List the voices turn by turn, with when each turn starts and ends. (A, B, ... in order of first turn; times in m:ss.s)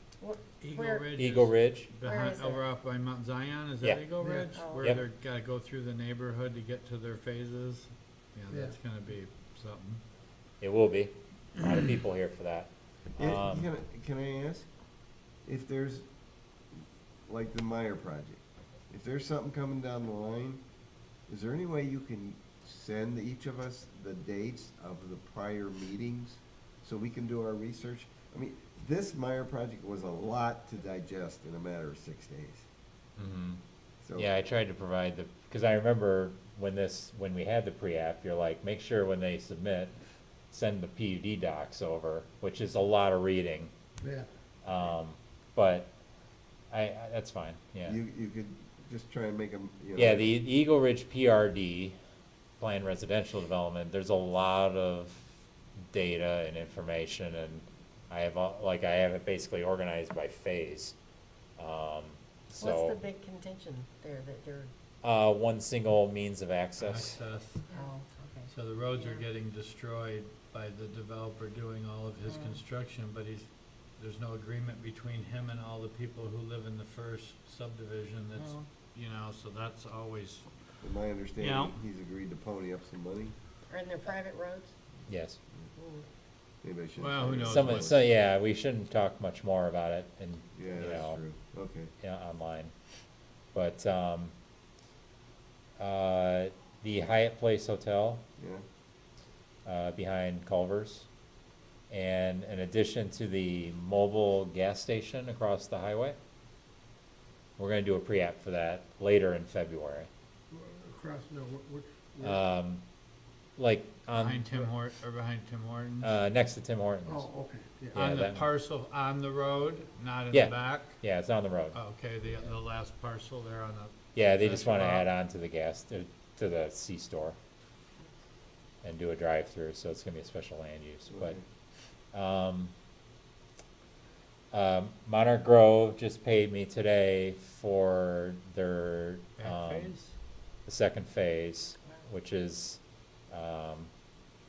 0:00.2-0:01.1 A
0:00.6-0:10.0 B
0:01.2-0:01.9 C
0:02.0-0:02.6 A
0:03.8-0:04.1 C
0:04.2-0:04.6 D
0:04.5-0:05.0 A
0:10.6-0:13.7 C
0:13.2-0:14.7 E
0:15.4-0:16.1 E
0:17.3-0:20.6 E
0:21.3-0:32.6 E
0:33.2-0:33.6 C
0:34.0-0:34.3 E
0:34.2-0:40.0 C
0:40.5-0:43.7 C
0:44.6-0:45.9 C
0:46.7-0:48.0 C
0:47.8-0:50.3 E
0:50.0-0:52.0 C
0:52.6-0:55.3 C
0:55.9-1:01.0 C
1:01.6-1:03.0 C
1:02.6-1:04.7 A
1:05.0-1:07.2 C
1:06.8-1:07.8 B
1:07.7-1:09.2 A
1:08.5-1:13.5 B
1:12.3-1:12.6 A
1:14.0-1:20.5 B
1:20.8-1:23.3 E
1:21.4-1:21.8 B
1:23.7-1:24.7 A
1:25.1-1:25.4 C
1:25.8-1:26.1 A
1:26.6-1:28.0 E
1:27.0-1:28.0 B
1:27.4-1:31.2 C
1:30.6-1:31.9 E
1:32.0-1:32.7 C
1:33.5-1:34.3 C
1:35.8-1:38.2 C
1:38.4-1:38.6 E
1:39.6-1:41.1 C
1:41.9-1:46.2 C
1:47.6-1:50.1 C
1:50.5-1:52.4 D
1:52.2-1:52.8 C
1:53.6-1:54.6 C
1:54.1-1:56.1 B
1:56.0-1:57.3 C
1:57.1-1:58.0 D
1:57.9-1:58.5 C
1:58.0-2:01.0 B
2:00.3-2:01.8 C
2:01.7-2:05.1 B
2:04.2-2:07.4 C
2:08.8-2:11.4 C
2:11.1-2:11.4 E
2:12.1-2:12.7 C
2:14.5-2:19.9 C
2:19.4-2:20.1 B
2:20.7-2:23.9 C